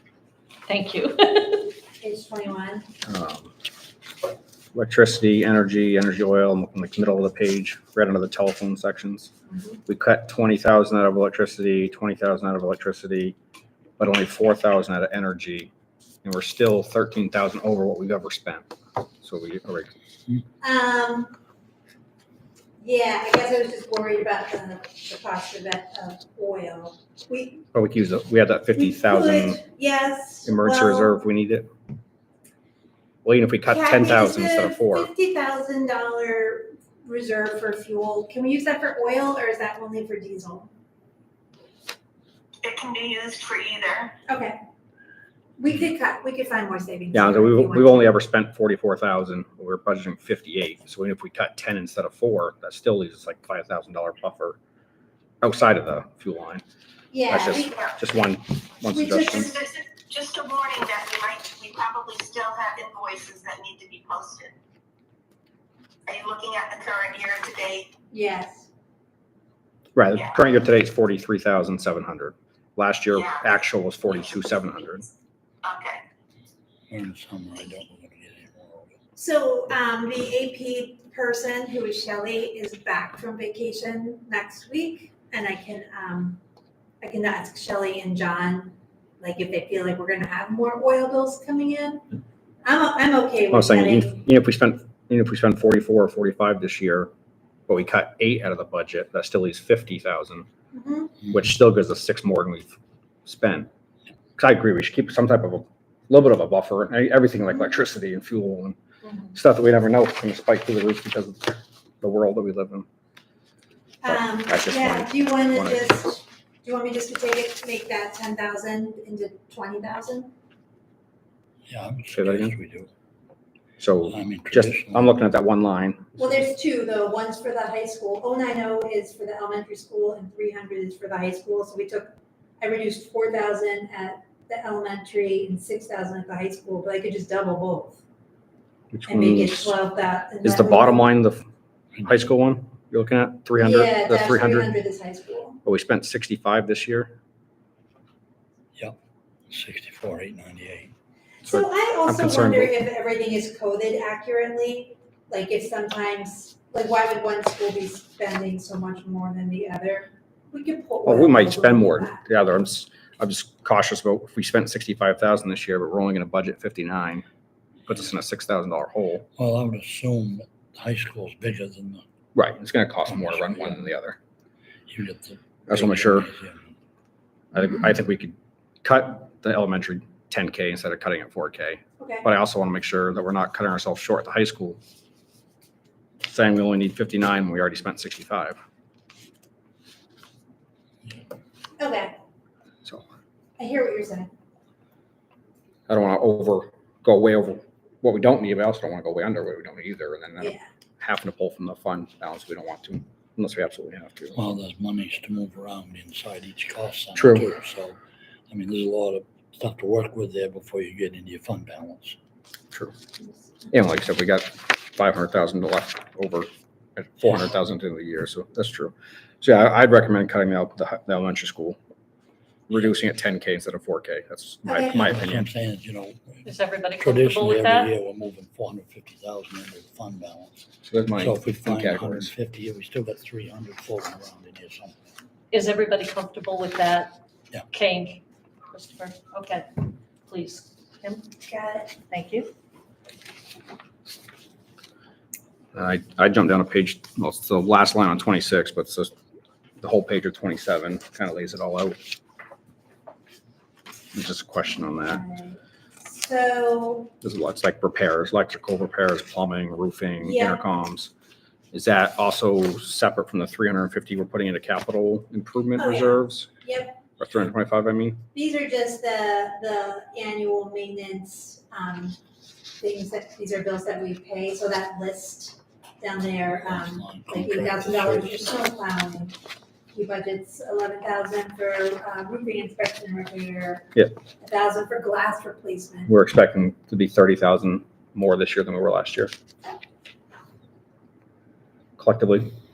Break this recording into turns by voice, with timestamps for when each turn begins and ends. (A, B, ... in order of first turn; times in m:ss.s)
0:00.7-0:01.7 A
0:02.0-0:02.9 B
0:03.1-0:03.5 C
0:04.7-0:09.3 C
0:09.5-0:09.8 B
0:09.9-0:13.4 C
0:14.0-0:15.7 C
0:16.2-0:18.7 C
0:19.2-0:19.9 C
0:20.6-0:21.3 B
0:22.8-0:27.6 B
0:27.7-0:29.6 C
0:28.8-0:31.2 B
0:30.5-0:31.7 C
0:33.2-0:35.1 C
0:33.7-0:40.7 B
0:42.6-0:44.2 D
0:44.3-0:44.6 B
0:45.6-0:48.1 B
0:47.1-0:54.6 C
0:55.4-0:56.6 C
0:57.1-0:57.8 B
0:57.3-0:59.5 C
0:58.8-0:59.5 B
0:59.4-1:04.6 D
1:06.1-1:07.9 D
1:08.1-1:08.7 B
1:10.0-1:15.1 C
1:13.1-1:13.5 D
1:15.6-1:16.0 D
1:16.9-1:19.0 E
1:19.2-1:26.4 B
1:27.0-1:32.0 B
1:32.6-1:34.2 B
1:33.5-1:37.1 C
1:37.7-1:40.5 C
1:40.7-1:41.2 B
1:41.3-1:42.7 C
1:43.3-1:43.7 C
1:44.4-1:48.8 C
1:49.0-1:49.3 B
1:49.3-1:52.9 C
1:54.0-2:00.3 B
1:54.1-1:55.9 C
2:01.7-2:02.9 E
2:02.1-2:02.6 C
2:03.8-2:06.2 C
2:04.0-2:05.2 E
2:06.2-2:18.0 B
2:18.9-2:19.7 C
2:19.1-2:21.1 B
2:20.4-2:21.5 C
2:22.0-2:24.7 C
2:23.6-2:25.6 B
2:25.6-2:27.1 C
2:29.5-2:30.9 E
2:31.4-2:42.2 B
2:31.5-2:32.7 C
2:41.0-2:47.2 C
2:47.9-2:49.3 C
2:49.4-2:52.0 E
2:52.4-2:54.2 C
2:53.1-2:53.8 E
2:54.9-2:56.6 E
2:55.7-2:56.3 C
2:57.5-3:04.8 C
3:02.0-3:02.3 B
3:06.2-3:08.6 C
3:11.8-3:12.2 B
3:13.6-3:14.3 B
3:15.9-3:24.4 C
3:20.4-3:20.7 B
3:24.3-3:28.0 E
3:27.2-3:27.5 C
3:28.5-3:32.2 E
3:33.7-3:41.8 C
3:42.7-3:45.5 C
3:44.7-3:45.1 B
3:45.0-3:46.4 E
3:46.4-3:47.9 A
3:47.0-3:55.1 E
3:50.8-3:52.3 C
3:55.5-3:57.2 A
3:57.7-3:58.2 A
3:58.7-4:01.2 A
4:01.4-4:02.0 B
4:02.1-4:02.5 A
4:05.8-4:09.1 C
4:09.8-4:12.0 C
4:14.1-4:15.2 C
4:14.7-4:17.1 B
4:17.2-4:21.1 C
4:20.2-4:20.6 B
4:21.7-4:26.5 C
4:25.8-4:27.0 B
4:27.2-4:28.2 C
4:28.3-4:32.2 B
4:32.8-4:39.4 B
4:36.6-4:38.6 E
4:39.9-4:46.1 B
4:46.1-4:49.3 C
4:52.0-4:52.5 C